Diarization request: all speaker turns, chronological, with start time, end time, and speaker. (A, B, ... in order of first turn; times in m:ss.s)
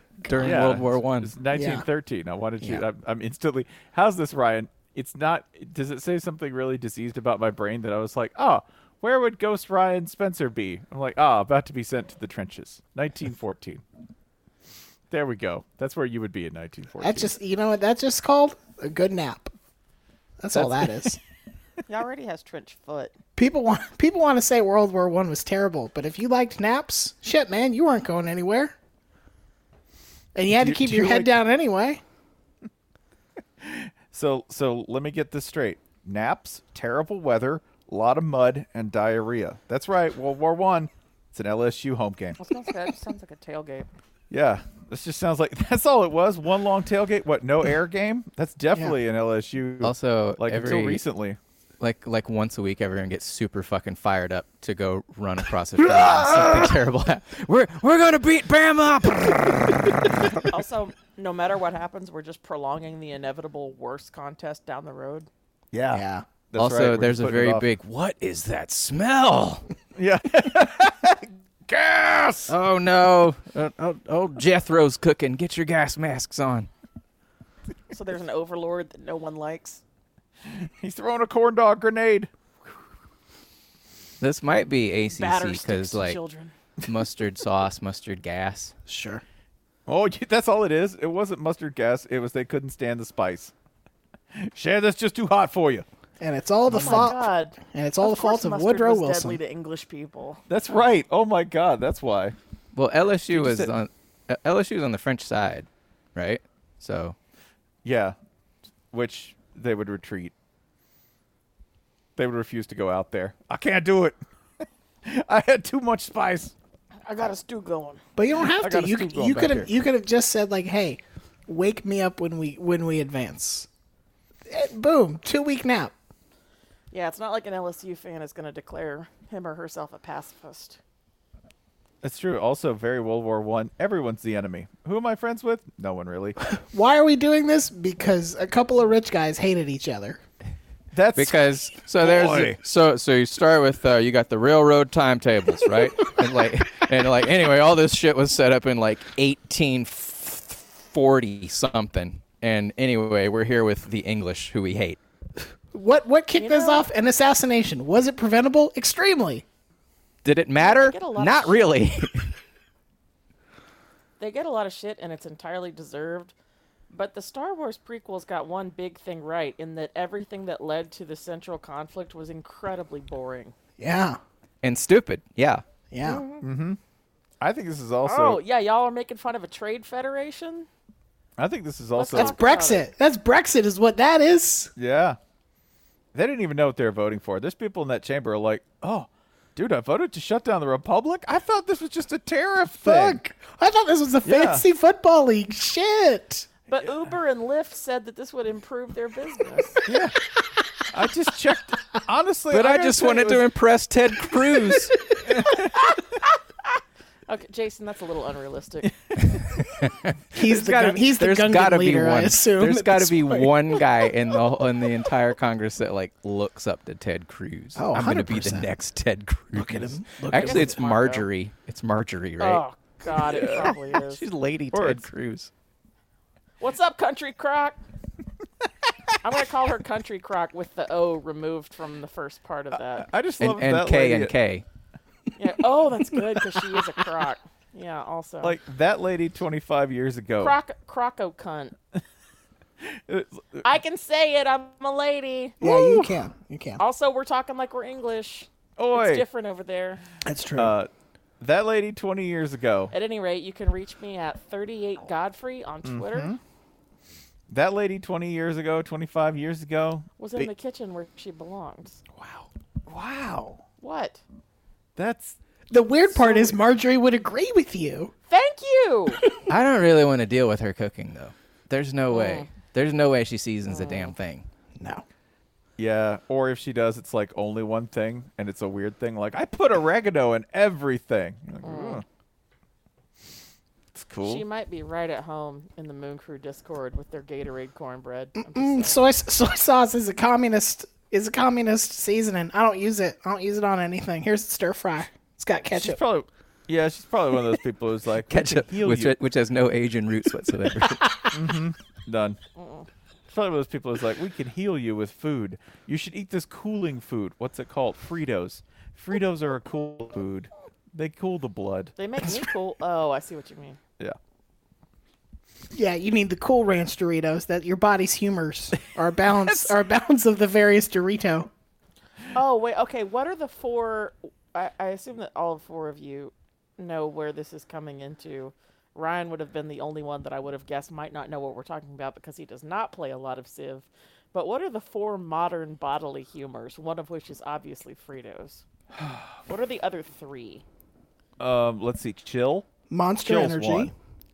0:00.2-0:01.3 A
0:00.3-0:00.7 B
0:00.4-0:13.8 C
0:01.5-0:01.8 B
0:15.1-0:17.3 C
0:17.0-0:19.5 B
0:20.4-0:21.2 B
0:21.9-0:23.2 D
0:23.4-0:28.7 B
0:30.3-0:32.0 B
0:30.6-0:31.3 C
0:33.6-0:42.4 C
0:42.4-0:43.9 D
0:44.3-0:51.4 C
0:49.8-0:51.0 A
0:51.8-0:59.9 A
1:00.5-1:05.3 D
1:05.7-1:07.7 C
1:05.9-1:06.2 B
1:06.6-1:09.6 A
1:10.0-1:12.5 C
1:12.5-1:16.7 A
1:17.9-1:19.8 D
1:20.5-1:22.3 C
1:24.2-1:26.2 A
1:25.1-1:26.5 D
1:26.8-1:28.7 A
1:28.8-1:29.2 B
1:29.9-1:33.5 C
1:34.3-1:35.8 C
1:36.2-1:39.4 B
1:36.7-1:40.4 D
1:40.5-1:42.4 C
1:42.7-1:47.2 A
1:43.3-1:43.7 C
1:47.8-1:48.1 C
1:48.9-1:50.3 C
1:52.2-1:54.2 C
1:55.0-1:56.5 C
1:57.0-1:58.0 D
1:58.2-2:03.7 B
1:58.5-1:59.7 C
2:04.5-2:05.9 B
2:06.9-2:10.8 D
2:12.0-2:16.4 C
2:16.5-2:20.2 B
2:20.9-2:22.6 C
2:21.1-2:35.0 A
2:35.7-2:39.4 B
2:36.3-2:36.9 D
2:40.2-2:42.3 A
2:40.6-2:41.8 D
2:44.2-2:46.3 D
2:46.9-2:53.5 D
2:53.8-2:54.2 B
2:54.6-2:55.6 A
2:55.9-2:56.2 B
2:56.0-2:56.4 D
2:56.4-2:56.8 C
2:57.4-2:58.4 C
2:58.0-3:00.7 D
3:01.4-3:02.4 C
3:01.9-3:02.9 D
3:02.2-3:04.7 B
3:04.8-3:05.2 C
3:06.1-3:13.2 C
3:12.8-3:16.5 B
3:14.2-3:14.6 C
3:16.7-3:19.8 D
3:19.8-3:20.2 C
3:20.9-3:23.4 C
3:22.5-3:24.9 A
3:27.3-3:28.9 D
3:29.6-3:42.6 A
3:30.3-3:33.5 B
3:37.8-3:38.7 B
3:39.5-3:40.8 B
3:40.3-3:41.2 D
3:42.4-3:44.2 D
3:43.1-3:43.8 C
3:43.9-3:45.5 A
3:44.7-3:45.0 C
3:46.6-3:47.8 D
3:49.2-3:53.1 D
3:52.9-3:54.3 C
3:53.4-3:54.6 A
3:55.4-3:58.6 D
3:58.4-4:00.6 C
4:00.4-4:01.7 D
4:02.8-4:03.6 C
4:03.6-4:05.6 D
4:05.6-4:06.8 B
4:05.6-4:06.1 C
4:06.8-4:10.0 D
4:08.8-4:09.2 C
4:10.2-4:10.7 B
4:10.6-4:10.9 C
4:11.4-4:12.9 C
4:12.9-4:16.3 D
4:15.8-4:16.4 C
4:17.5-4:20.5 C
4:20.2-4:22.0 D
4:22.2-4:23.6 C
4:23.8-4:24.2 D
4:25.0-4:25.4 C
4:25.7-4:28.1 B
4:28.3-4:29.2 D
4:29.5-4:34.4 A
4:32.1-4:32.5 D
4:33.7-4:34.1 D
4:34.8-4:35.0 B
4:35.8-4:42.0 C
4:41.6-4:42.0 D
4:43.9-4:44.4 C
4:44.2-4:49.0 D
4:48.4-4:56.0 B
4:55.7-4:59.2 C
4:58.3-5:01.1 A
5:01.0-5:01.3 B
5:01.3-5:02.4 C
5:02.6-5:02.9 D
5:03.3-5:12.0 C
5:12.0-5:13.8 D
5:15.7-5:21.5 B
5:19.5-5:19.7 C
5:22.3-5:38.6 D
5:39.0-5:39.4 C
5:39.5-5:40.6 D
5:41.4-5:42.7 C
5:42.9-5:43.9 B
5:43.2-5:43.9 C